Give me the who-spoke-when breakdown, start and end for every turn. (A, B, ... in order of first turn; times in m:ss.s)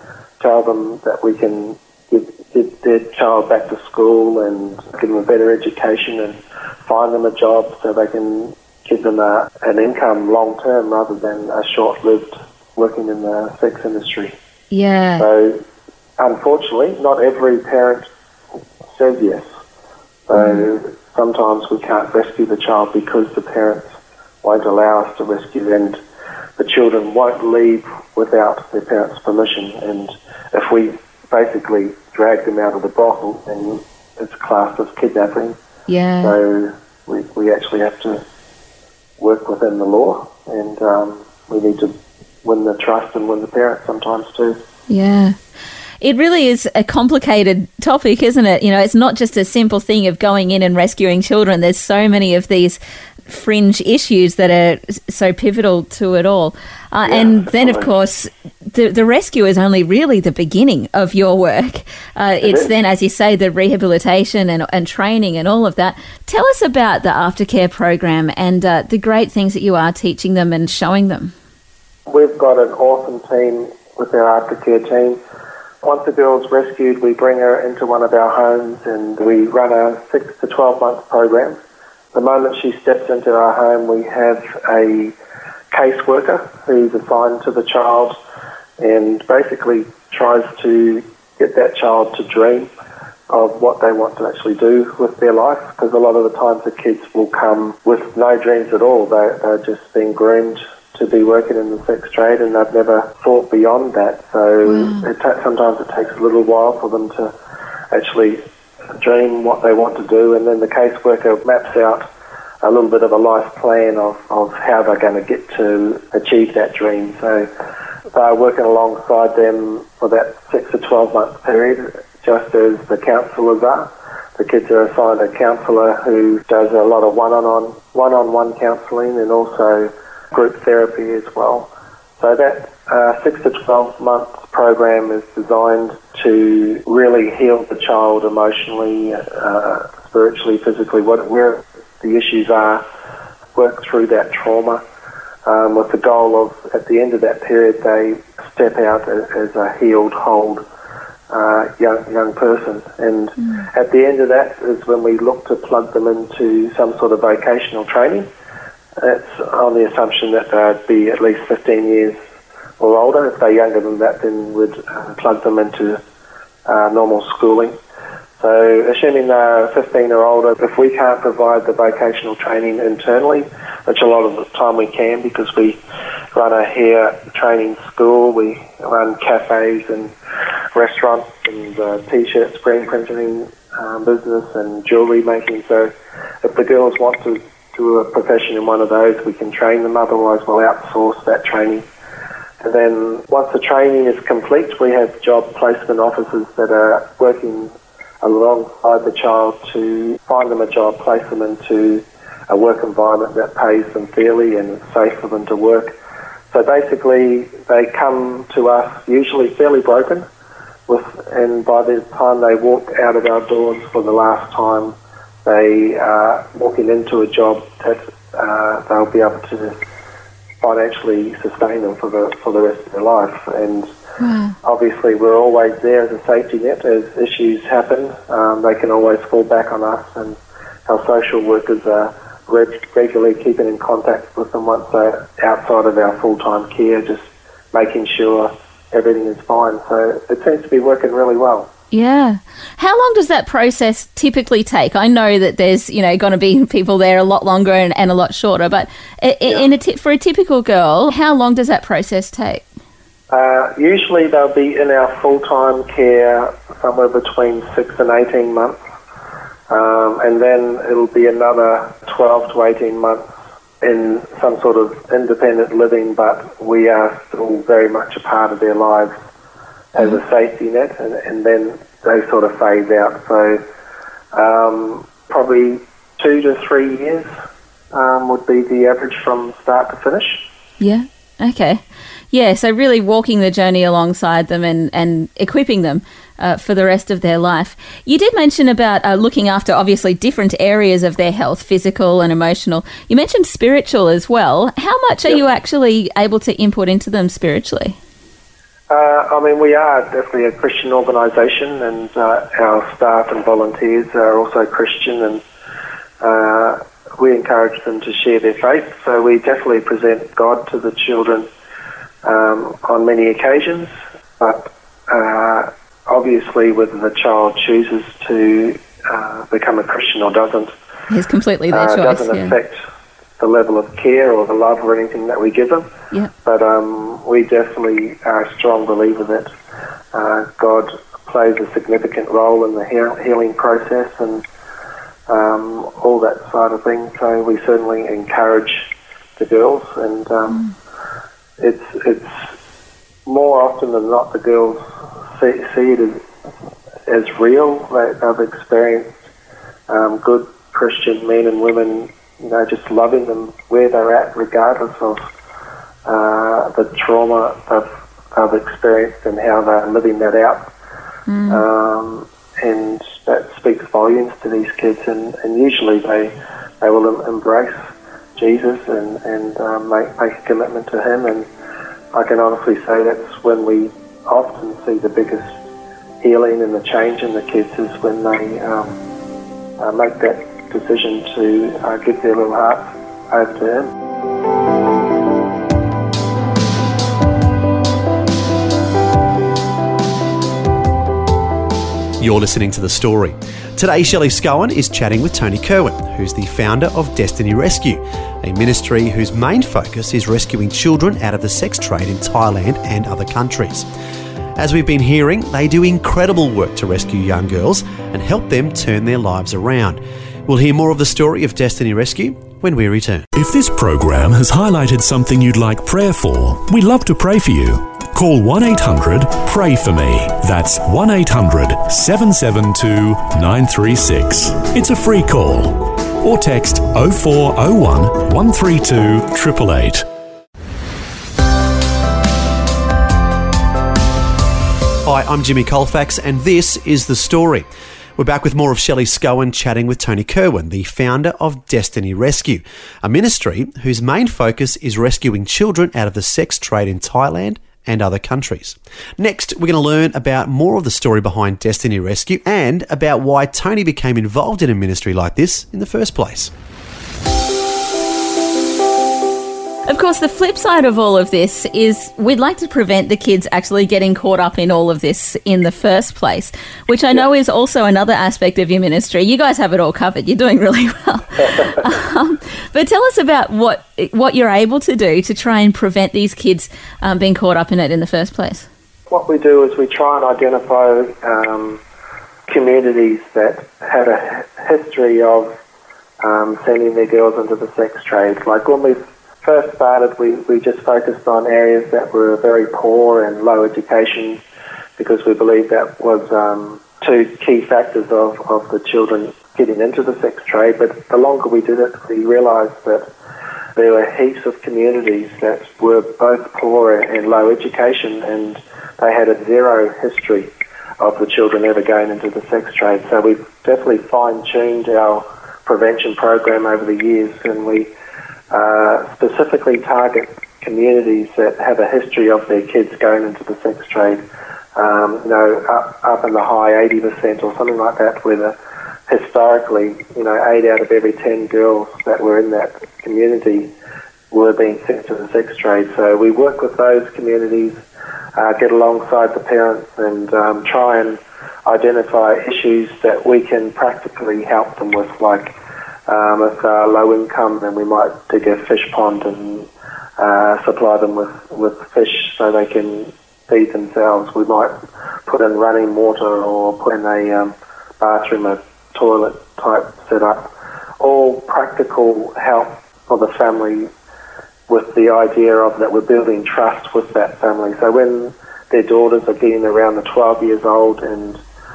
0:00.4-0:14.3 A
0:14.7-0:15.3 B
0:15.2-0:15.6 A
0:16.2-0:18.1 A
0:18.9-0:19.4 A
0:20.3-0:26.0 A
0:20.3-0:20.7 B
0:26.6-0:35.6 A
0:35.9-0:36.3 B
0:36.2-0:38.2 A
0:39.2-0:44.6 A
0:44.9-0:45.4 B
0:46.0-1:11.3 B
0:57.0-0:57.9 A
1:02.4-1:02.7 A
1:12.1-1:15.2 A
1:15.8-1:21.6 A
1:22.1-1:25.1 A
1:25.7-1:28.2 A
1:28.8-1:32.7 A
1:33.3-1:47.3 A
1:44.6-1:45.0 B
1:47.9-1:48.4 A
1:49.0-1:52.0 A
1:52.6-1:57.5 A
1:58.1-2:22.8 A
2:23.5-2:24.8 A
2:25.4-2:30.6 A
2:31.3-2:38.3 A
2:39.0-2:42.2 A
2:42.8-2:46.0 A
2:46.6-2:47.8 A
2:48.4-2:55.8 A
2:56.3-3:00.1 A
3:00.7-3:05.9 A
3:06.4-3:11.8 A
3:12.6-3:25.9 A
3:26.5-3:30.2 A
3:30.9-3:39.8 A
3:40.6-3:43.9 A
3:44.2-3:44.6 B
3:44.6-4:01.7 A
4:01.9-4:12.6 B
4:13.3-4:18.8 A
4:19.7-4:29.1 A
4:29.9-4:33.6 A
4:34.3-4:37.3 A
4:37.9-4:40.4 A
4:40.8-4:41.8 B
4:42.3-4:58.0 B
4:58.9-5:05.4 A
5:06.2-5:11.5 A
5:12.2-5:20.7 A
5:21.1-5:22.5 B
5:21.7-5:22.8 A
5:23.4-5:25.9 A
5:26.4-5:29.5 A
5:30.1-5:34.4 A
5:35.3-5:40.7 A
5:41.6-5:42.5 A
5:43.2-5:46.2 A
5:47.1-5:49.2 A
5:49.9-5:55.2 A
5:56.0-6:00.7 A
6:01.3-6:01.6 B
6:01.5-6:11.5 A
6:12.1-6:15.6 A
6:16.2-6:19.0 A
6:19.8-6:23.9 A
6:32.2-6:43.9 C
6:44.6-6:53.3 C
6:53.3-7:10.0 D
7:15.0-7:36.5 C
7:39.9-7:58.7 B
7:59.1-8:01.8 A
8:02.5-8:05.5 A
8:06.2-8:14.4 A
8:15.0-8:23.1 A
8:23.8-8:37.9 A
8:38.5-8:44.2 A
8:44.8-8:48.5 A
8:49.1-8:53.7 A
8:54.3-8:57.8 A
8:58.4-9:05.5 A
9:06.1-9:23.9 A
9:24.7-9:31.4 A